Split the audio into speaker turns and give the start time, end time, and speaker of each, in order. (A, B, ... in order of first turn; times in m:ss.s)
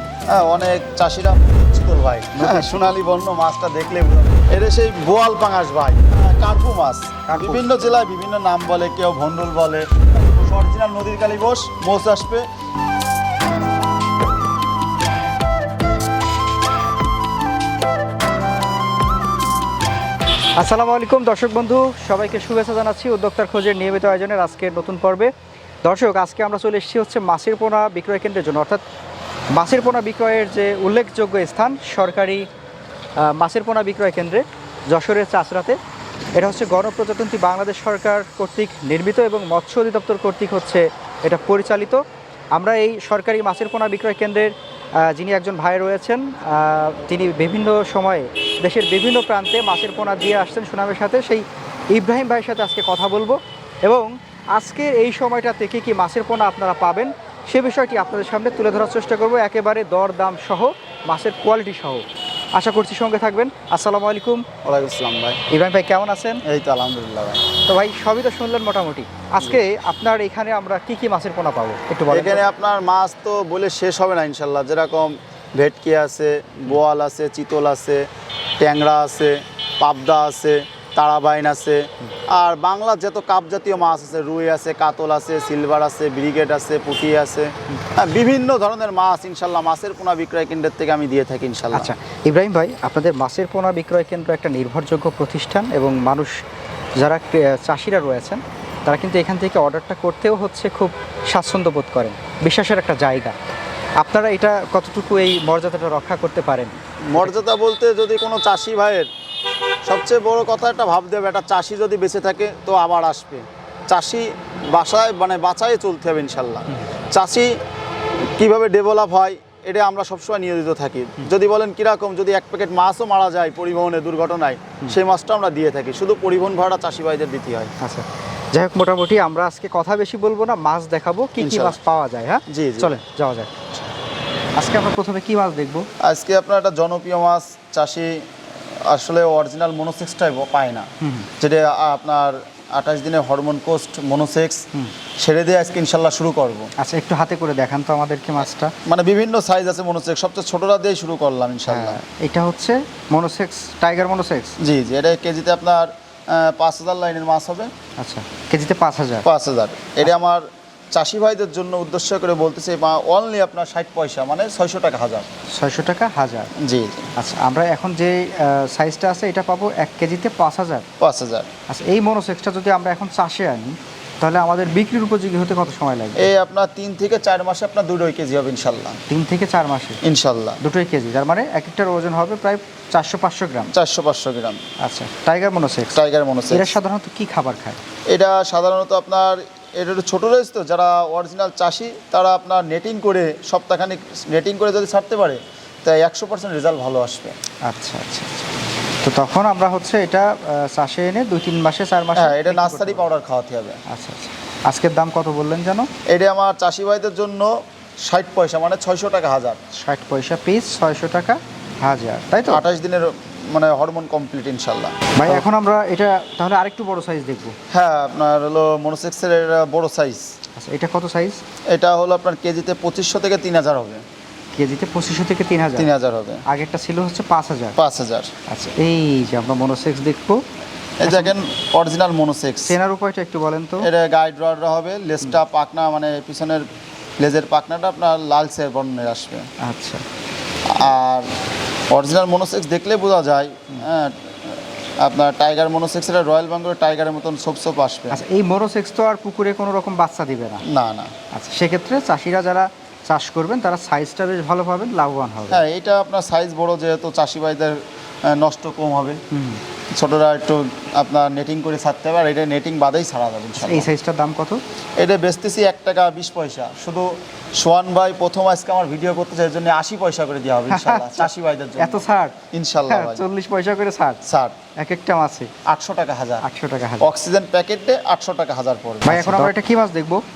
0:00.3-0:12.4 A
0:02.3-0:02.9 B
0:07.3-0:07.7 B
0:20.6-0:25.3 B
0:25.8-0:28.8 B
0:29.5-0:32.4 B
0:33.2-0:35.8 B
0:36.3-0:42.0 B
0:42.5-1:04.4 B
1:04.6-1:05.4 A
1:05.5-1:06.4 B
1:06.4-1:07.5 A
1:07.6-1:12.4 B
1:12.1-1:18.1 A
1:18.6-1:31.9 A
1:27.7-1:28.0 B
1:31.7-1:36.3 B
1:37.0-1:43.4 B
1:44.0-1:47.4 B
1:47.1-1:49.1 A
1:49.8-1:57.5 A
1:58.4-2:07.7 A
2:07.8-2:13.6 B
2:11.4-2:11.8 A
2:12.5-2:13.0 A
2:14.6-2:15.9 B
2:16.0-2:18.2 A
2:18.8-2:20.9 A
2:21.0-2:21.3 B
2:21.4-2:24.6 A
2:25.2-2:26.7 A
2:26.8-2:28.7 B
2:28.8-2:32.0 A
2:31.7-2:34.6 B
2:34.6-2:37.7 A
2:38.0-2:39.3 B
2:39.2-2:45.3 A
2:45.5-2:46.5 B
2:46.6-2:47.1 A
2:47.2-2:50.8 B
2:51.0-2:51.5 A
2:51.7-2:56.3 B
2:56.2-2:59.0 A
2:59.1-3:00.0 B
3:00.0-3:00.6 A
3:00.6-3:03.7 B
3:03.7-3:04.6 A
3:04.8-3:07.8 B
3:05.9-3:06.7 A
3:08.1-3:17.4 A
3:17.6-3:18.5 B
3:19.0-3:23.0 B
3:22.1-3:23.8 A
3:23.9-3:25.9 B
3:26.1-3:27.5 A
3:28.0-3:29.6 A
3:29.7-3:32.6 B
3:32.5-3:35.4 A
3:35.1-3:37.6 B
3:37.7-3:40.3 A
3:40.6-3:41.4 B
3:41.7-3:44.0 A
3:44.6-3:45.9 B
3:45.8-3:46.4 A
3:46.5-3:47.8 B
3:47.8-3:48.3 A
3:48.5-3:50.4 B
3:51.0-3:52.8 A
3:51.0-3:51.3 B
3:52.7-3:53.9 B
3:53.8-3:56.6 A
3:57.2-3:59.4 A
3:59.6-4:00.0 B
4:00.7-4:01.3 A
4:01.9-4:08.2 A
4:08.1-4:10.6 B
4:10.6-4:11.1 A
4:11.3-4:15.6 B
4:15.5-4:19.2 A
4:19.3-4:19.6 B
4:19.9-4:23.9 A
4:23.6-4:24.6 B
4:25.0-4:33.2 A
4:30.7-4:32.3 B
4:32.8-4:34.2 B
4:34.2-4:34.5 A
4:34.8-4:35.5 B
4:35.6-4:36.4 A
4:36.4-4:37.1 B
4:37.0-4:39.5 A
4:39.0-4:40.2 B